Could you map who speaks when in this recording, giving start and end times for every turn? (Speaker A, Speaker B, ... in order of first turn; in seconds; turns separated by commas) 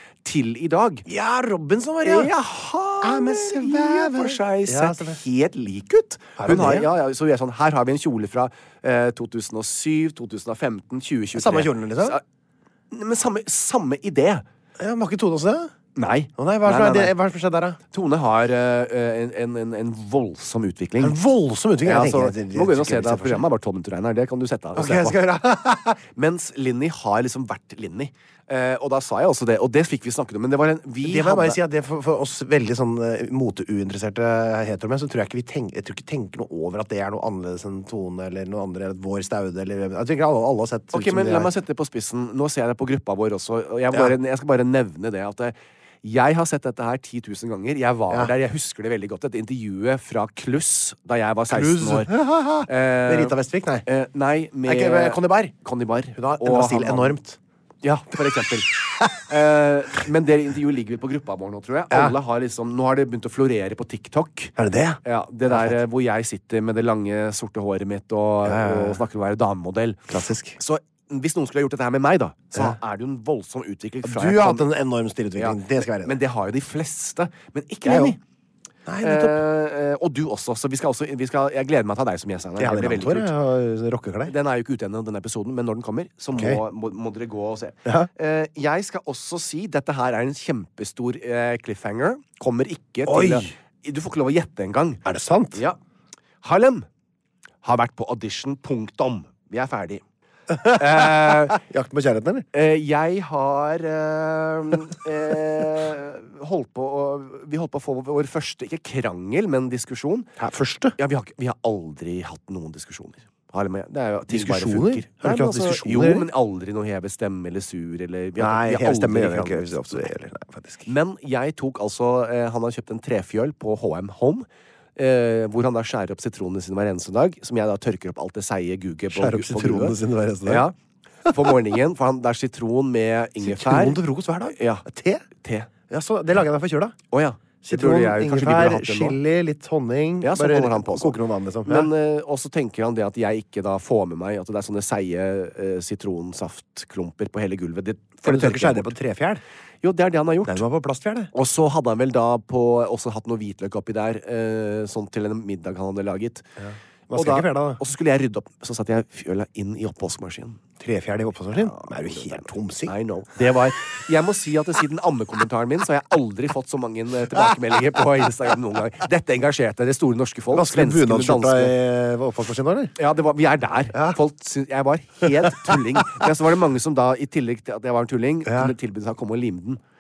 Speaker A: 0.2-1.1, Speaker B: 1.1-2.3, Speaker A: 2.0-12.2, Speaker B: 3.0-5.2, Speaker B: 6.4-6.9, Speaker B: 11.3-12.2, Speaker A: 12.9-14.4, Speaker B: 14.8-15.7, Speaker A: 16.0-17.1, Speaker B: 16.4-17.8, Speaker A: 17.9-21.2, Speaker B: 21.0-23.5, Speaker A: 21.8-25.2, Speaker B: 24.8-26.0, Speaker A: 26.1-31.6, Speaker B: 31.0-41.5, Speaker A: 40.9-57.2, Speaker B: 51.5-53.9, Speaker B: 54.6-55.5, Speaker B: 56.2-57.4, Speaker A: 57.8-64.5, Speaker B: 61.9-62.1, Speaker B: 64.6-65.8, Speaker A: 65.0-74.7, Speaker B: 68.4-69.0, Speaker B: 70.1-70.6, Speaker B: 74.0-76.2, Speaker A: 75.4-78.2, Speaker B: 77.8-78.2, Speaker B: 78.9-79.4, Speaker A: 79.0-83.3, Speaker B: 82.6-84.3, Speaker A: 84.3-95.0, Speaker B: 86.3-86.6, Speaker B: 93.0-93.5, Speaker B: 95.0-95.6, Speaker A: 96.4-96.9, Speaker A: 97.6-100.0, Speaker B: 100.5-102.5, Speaker A: 100.6-101.6, Speaker A: 102.5-110.3, Speaker B: 110.4-111.0, Speaker A: 111.0-120.1, Speaker B: 114.3-116.3, Speaker B: 118.4-120.9, Speaker A: 120.9-130.8, Speaker B: 129.1-130.7, Speaker B: 131.2-131.6, Speaker A: 131.3-134.9, Speaker B: 133.4-135.3, Speaker A: 135.4-135.7, Speaker B: 135.9-137.0, Speaker A: 137.1-139.2, Speaker B: 137.6-141.9, Speaker A: 140.2-148.9, Speaker B: 148.2-149.4, Speaker A: 149.8-150.6, Speaker B: 150.4-151.3, Speaker A: 151.3-156.5, Speaker B: 156.6-157.8, Speaker A: 157.1-160.6, Speaker B: 160.8-162.9, Speaker A: 161.5-171.8, Speaker B: 170.5-172.9, Speaker A: 173.0-179.8, Speaker B: 173.9-174.2, Speaker B: 175.2-176.3, Speaker B: 178.4-178.8